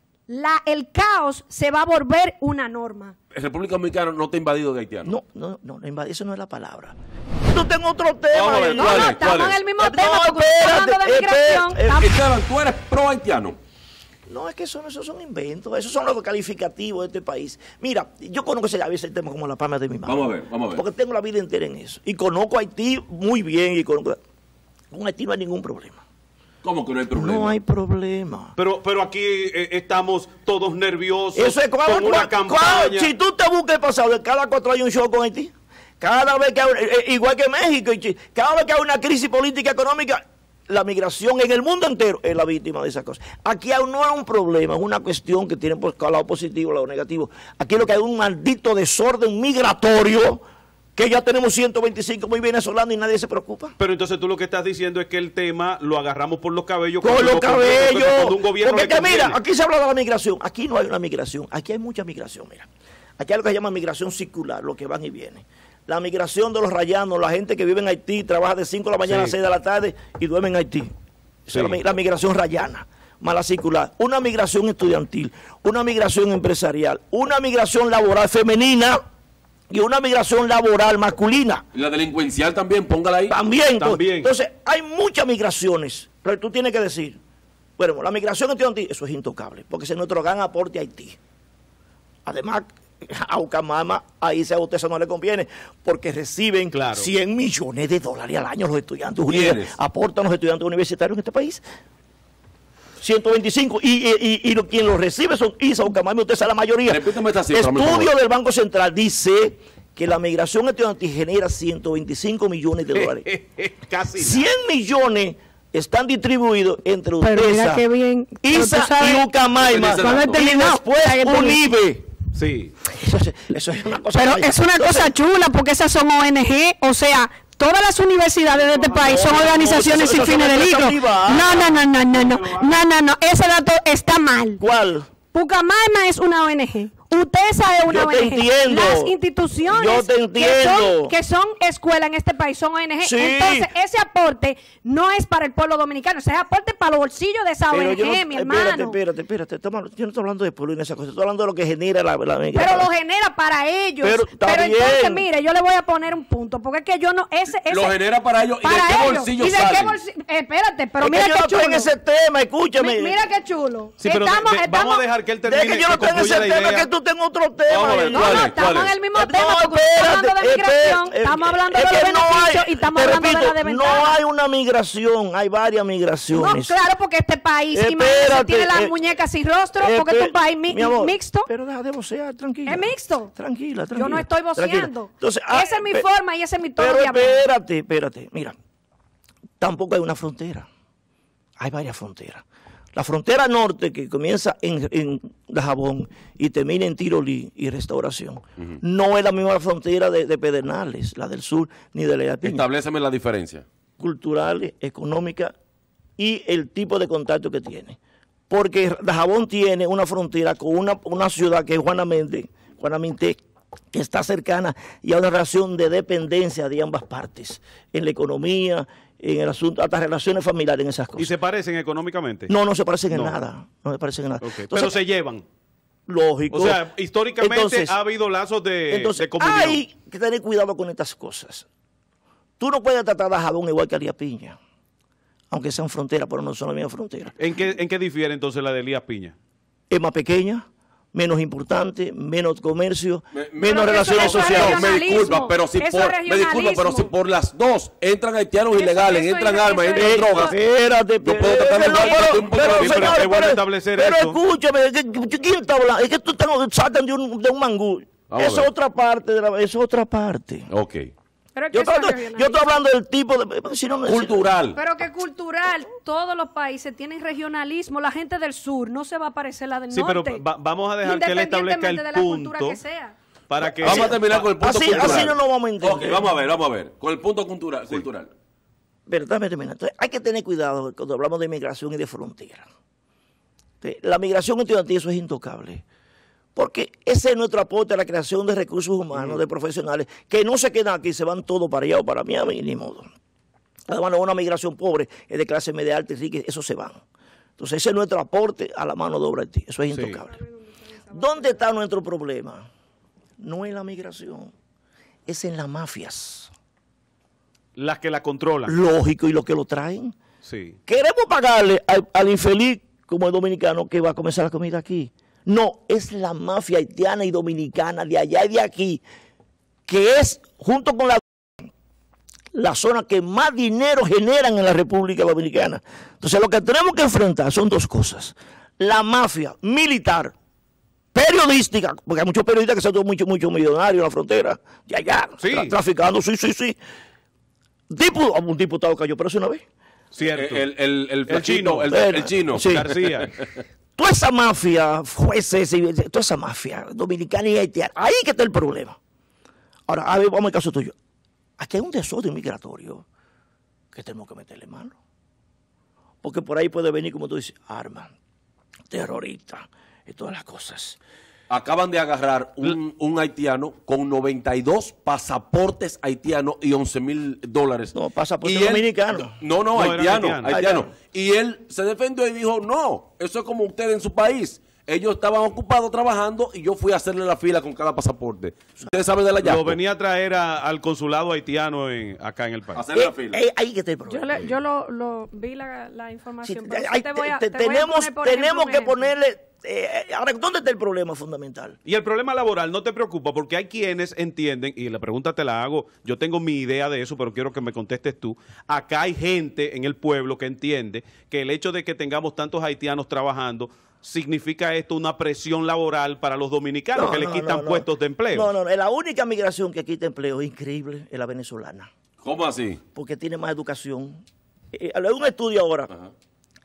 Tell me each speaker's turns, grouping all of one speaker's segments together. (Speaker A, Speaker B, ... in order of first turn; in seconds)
Speaker A: 0.3-3.1, 8.8-12.2, 117.2-119.3, 119.9-121.6, 124.2-134.6, 135.3-149.0, 152.6-158.0, 158.6-161.9, 162.8-165.1, 168.1-174.2, 176.3-181.5, 182.7-183.3, 183.9-187.5, 243.6-247.1, 248.7-250.6, 261.6-262.8, 264.8-270.4, 271.0-273.1, 300.4-301.7, 384.1-389.1
Speaker B: 3.3-5.1, 8.3-9.6, 11.9-13.6, 20.1-20.8, 26.6-27.5, 81.7-83.3, 99.3-99.7, 106.9-108.1, 119.6-120.4, 157.7-160.0, 168.1-168.9, 202.4-203.7, 243.3-250.6, 251.2-253.2, 258.3-258.7, 260.7-261.1, 264.1-264.8, 273.8-278.3, 340.2-343.6, 361.5-367.9, 369.2-379.8, 382.8-383.4, 412.2-412.8
Speaker C: 5.0-7.0, 7.5-9.2, 9.8-12.1, 14.3-24.2, 24.9-26.0, 27.1-28.6, 31.4-50.4, 51.0-53.8, 57.0-62.7, 63.2-70.9, 71.5-79.0, 79.7-81.7, 83.3-87.2, 87.8-91.2, 92.2-101.6, 103.0-113.3, 114.2-117.9, 118.4-122.1, 123.0-125.1, 129.0-131.7, 134.6-135.1, 137.9-141.2, 143.0-143.7, 147.7-152.9, 154.0-155.2, 161.0-163.2, 165.4-168.5, 169.1-176.8, 177.7-179.0, 179.8-186.1, 186.8-188.6, 189.6-190.7, 191.6-202.7, 204.0-205.5, 206.2-208.0, 208.5-213.4, 213.9-221.3, 222.5-225.0, 226.1-226.8, 227.4-227.9, 228.9-231.7, 232.6-234.6, 235.5-237.4, 239.9-244.9, 249.9-260.7, 261.7-264.5, 273.8-276.3, 279.1-282.7, 283.8-285.9, 286.6-293.1, 293.9-297.0, 297.6-300.3, 301.1-302.7, 303.4-304.5, 305.3-306.5, 308.7-310.1, 310.9-319.0, 319.9-321.7, 322.5-330.3, 331.1-336.8, 337.9-339.6, 341.9-343.0, 344.0-349.0, 349.9-350.9, 351.6-353.1, 353.9-354.9, 356.2-358.1, 358.9-361.0, 367.9-369.4, 370.4-370.9, 382.9-384.5, 386.4-391.8, 406.9-411.9, 412.9-415.9
Speaker D: 28.6-33.1, 53.8-59.4, 69.1-69.3, 71.5-71.8, 83.8-84.3, 96.7-97.1, 112.9-114.5, 122.3-122.8, 128.6-129.6, 132.1-132.7, 164.0-166.9, 167.7-168.2, 221.2-222.5, 223.1-223.4, 224.4-225.4, 226.5-229.8, 237.4-239.3, 252.5-254.4, 269.9-272.8, 273.5-275.2, 299.9-300.2, 307.8-308.8, 310.4-310.8, 335.4-335.7, 340.1-340.7, 341.3-342.0, 342.6-343.4, 368.4-368.8, 369.7-370.8, 379.4-382.8, 391.9-408.5